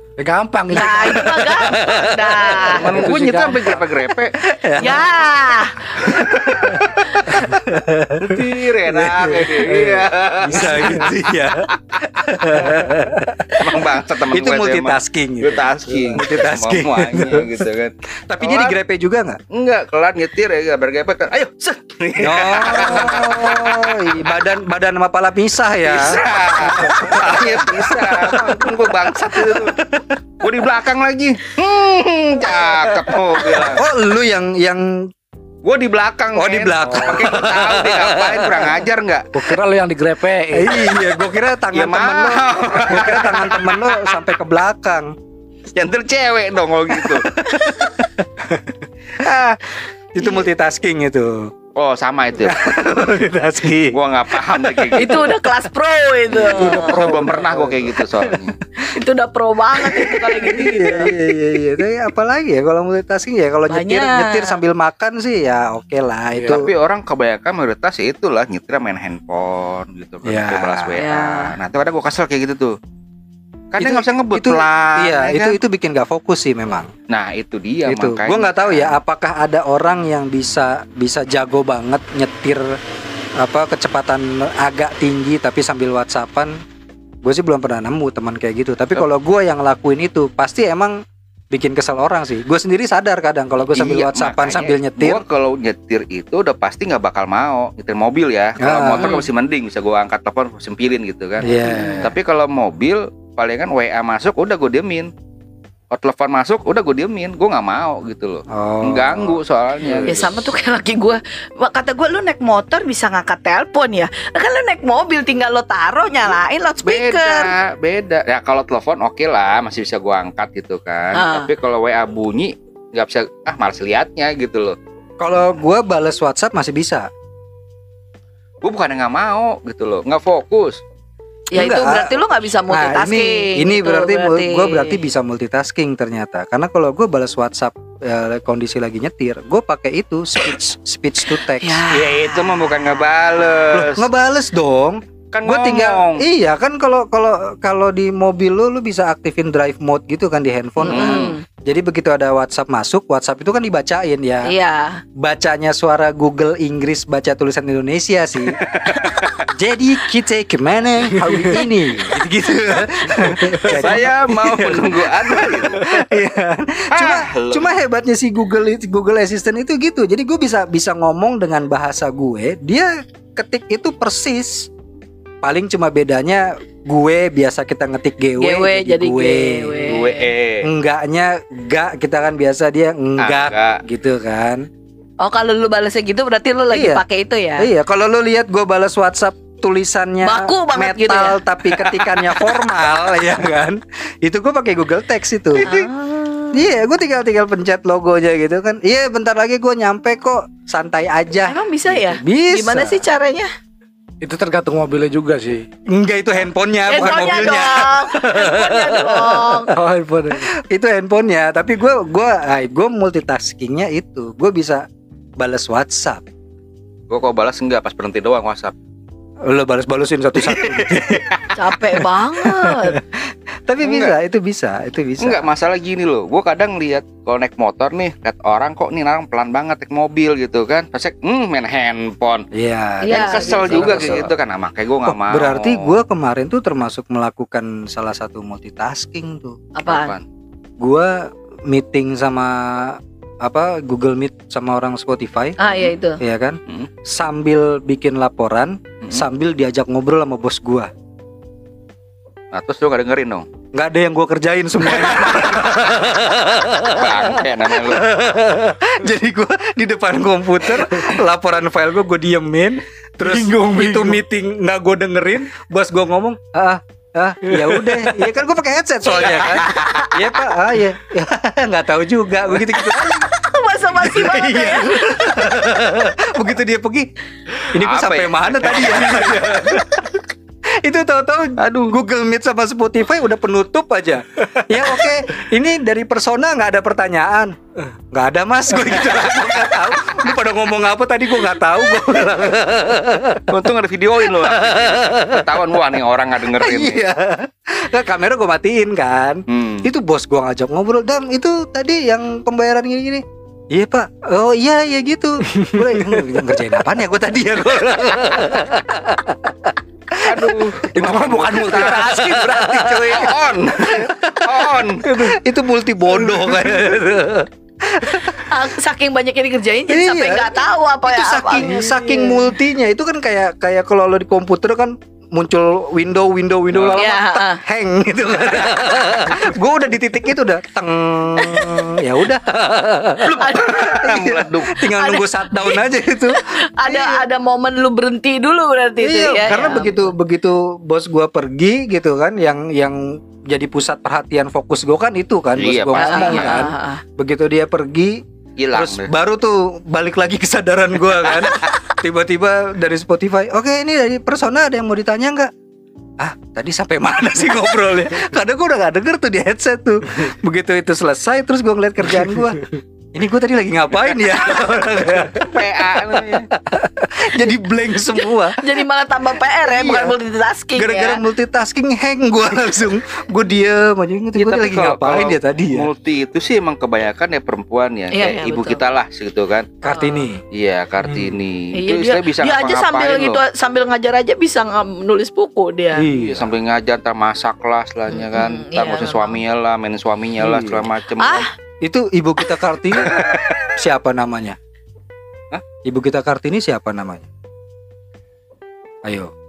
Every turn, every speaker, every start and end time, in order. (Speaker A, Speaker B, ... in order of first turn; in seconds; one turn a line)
Speaker A: 0.2-3.8
Speaker B: 0.7-2.8
Speaker C: 1.7-2.3
Speaker D: 2.7-4.4
Speaker C: 4.4-5.2
Speaker B: 4.8-5.9
Speaker C: 6.0-9.8
Speaker D: 8.3-12.0
Speaker A: 9.6-11.1
Speaker C: 10.4-17.6
Speaker A: 12.6-12.9
Speaker D: 13.6-18.8
Speaker A: 15.9-16.2
Speaker C: 18.3-19.4
Speaker D: 19.5-24.3
Speaker C: 22.2-30.1
Speaker D: 25.8-29.8
Speaker D: 30.4-33.8
Speaker C: 32.7-35.1
Speaker D: 35.6-39.3
Speaker C: 36.3-38.8
Speaker A: 39.3-40.9
Speaker C: 40.5-45.1
Speaker D: 41.7-44.3
Speaker D: 45.7-47.3
Speaker C: 47.0-48.8
Speaker D: 49.2-49.6
Speaker C: 50.1-51.5
Speaker D: 51.7-52.8
Speaker C: 52.4-55.1
Speaker D: 53.9-55.3
Speaker B: 55.0-57.0
Speaker A: 56.4-57.9
Speaker D: 56.4-58.6
Speaker B: 58.8-61.2
Speaker C: 59.8-66.7
Speaker B: 63.7-64.6
Speaker A: 66.3-66.6
Speaker D: 66.5-72.7
Speaker C: 70.2-71.0
Speaker B: 71.0-71.5
Speaker D: 73.7-75.6
Speaker C: 73.8-76.9
Speaker D: 77.1-79.0
Speaker C: 77.9-82.8
Speaker C: 83.4-86.6
Speaker C: 87.2-91.0
Speaker C: 91.5-95.2
Speaker D: 93.7-105.1
Speaker C: 98.6-99.1
Speaker B: 99.0-99.3
Speaker C: 101.4-102.2
Speaker B: 101.6-102.1
Speaker D: 105.9-110.4
Speaker C: 108.5-110.2
Speaker B: 110.1-117.5
Speaker D: 116.8-124.8
Speaker B: 121.1-121.5
Speaker C: 125.2-127.1
Speaker D: 128.6-130.8
Speaker B: 131.5-135.1
Speaker C: 131.5-141.8
Speaker B: 141.5-143.0
Speaker D: 141.9-144.1
Speaker C: 143.7-154.5
Speaker D: 145.3-146.2
Speaker B: 150.8-151.4
Speaker D: 150.8-151.3
Speaker B: 154.4-155.0
Speaker C: 155.2-158.6
Speaker D: 158.5-159.4
Speaker B: 158.9-159.2
Speaker C: 159.5-174.7
Speaker A: 161.1-161.6
Speaker A: 163.0-164.0
Speaker D: 163.6-165.8
Speaker D: 166.9-167.7
Speaker C: 175.4-180.0
Speaker B: 178.4-180.3
Speaker D: 179.8-180.7
Speaker C: 180.6-184.7
Speaker D: 183.2-183.8
Speaker B: 185.2-187.7
Speaker C: 186.7-187.0
Speaker C: 187.6-195.7
Speaker B: 190.2-191.4
Speaker D: 191.8-192.5
Speaker D: 195.6-195.9
Speaker B: 195.7-196.7
Speaker C: 196.5-203.0
Speaker B: 201.4-203.5
Speaker A: 204.2-205.7
Speaker C: 205.9-209.7
Speaker B: 206.9-209.7
Speaker A: 209.7-210.5
Speaker C: 210.3-214.8
Speaker C: 215.4-216.2
Speaker D: 217.1-218.7
Speaker C: 219.4-223.2
Speaker D: 220.4-221.5
Speaker B: 221.5-223.0
Speaker C: 223.7-225.5
Speaker D: 223.8-224.1
Speaker D: 225.2-232.5
Speaker C: 232.5-234.3
Speaker B: 233.0-234.2
Speaker D: 233.1-235.9
Speaker C: 235.1-239.6
Speaker B: 239.7-240.1
Speaker D: 239.8-240.2
Speaker C: 240.8-245.6
Speaker B: 245.6-246.2
Speaker C: 246.2-250.9
Speaker D: 252.5-253.4
Speaker C: 253.7-273.3
Speaker D: 255.2-255.7
Speaker D: 256.9-258.1
Speaker A: 263.2-264.2
Speaker A: 267.4-268.1
Speaker B: 269.0-270.2
Speaker D: 269.6-269.9
Speaker B: 272.8-275.1
Speaker C: 273.9-277.1
Speaker C: 277.7-280.2
Speaker D: 277.8-279.8
Speaker C: 280.8-287.6
Speaker D: 281.6-281.9
Speaker C: 288.1-293.5
Speaker D: 293.5-297.0
Speaker C: 294.3-295.6
Speaker C: 296.6-309.3
Speaker D: 299.5-299.9
Speaker A: 305.5-306.6
Speaker A: 308.4-308.6
Speaker C: 310.1-318.6
Speaker D: 310.2-312.2
Speaker A: 310.9-313.2
Speaker D: 313.0-315.1
Speaker A: 315.1-315.3
Speaker B: 318.4-322.3
Speaker C: 319.9-337.2
Speaker D: 326.7-327.0
Speaker B: 326.9-327.6
Speaker D: 333.2-334.8
Speaker B: 333.4-334.0
Speaker B: 334.9-340.1
Speaker C: 339.0-348.2
Speaker D: 345.6-346.7
Speaker B: 345.9-347.0
Speaker D: 348.6-349.1
Speaker C: 348.7-355.5
Speaker D: 351.2-351.8
Speaker C: 356.2-368.6
Speaker A: 362.1-362.8
Speaker D: 365.4-366.5
Speaker B: 368.5-371.2
Speaker C: 369.6-370.1
Speaker C: 370.7-375.9
Speaker D: 374.4-379.7
Speaker B: 378.1-378.8
Speaker C: 379.8-380.4
Speaker B: 379.9-380.2
Speaker D: 380.5-383.4
Speaker A: 381.0-381.3
Speaker B: 381.7-386.1
Speaker C: 385.9-386.5
Speaker D: 386.1-391.5
Speaker B: 388.1-389.4
Speaker C: 390.4-390.8
Speaker B: 391.2-391.5
Speaker C: 391.8-394.6
Speaker D: 392.9-393.6
Speaker C: 395.8-397.3
Speaker C: 399.0-399.3